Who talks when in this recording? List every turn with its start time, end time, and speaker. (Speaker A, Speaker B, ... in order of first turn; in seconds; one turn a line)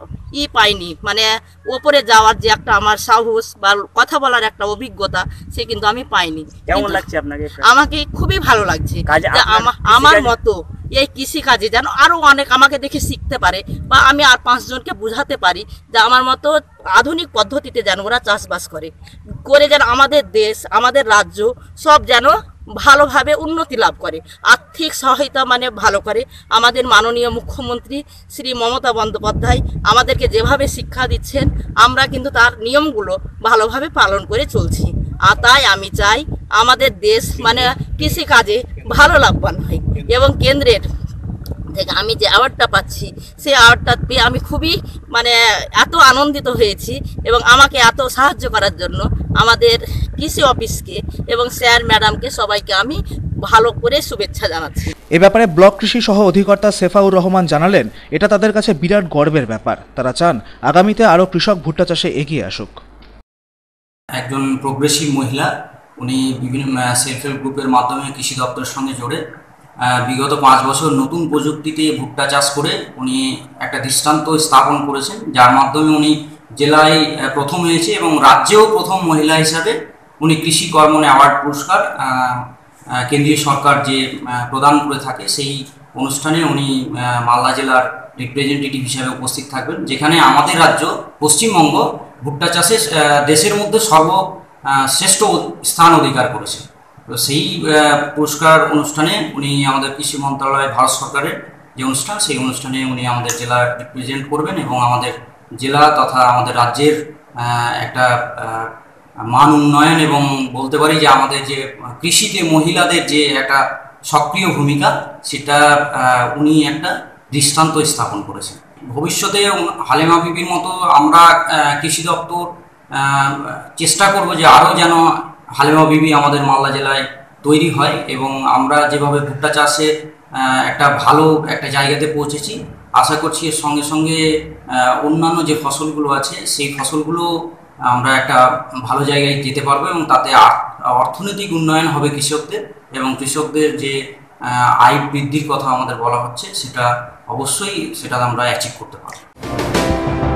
Speaker A: 0.3-7.0
Speaker B: 6.7-7.7
Speaker A: 7.6-18.9
Speaker B: 9.1-10.3
Speaker A: 19.5-40.9
Speaker A: 41.7-54.9
Speaker C: 55.1-62.8
Speaker D: 64.2-69.2
Speaker D: 69.9-82.5
Speaker D: 83.0-108.7
Speaker D: 109.3-134.2
Speaker D: 134.7-137.3
Speaker D: 137.9-149.2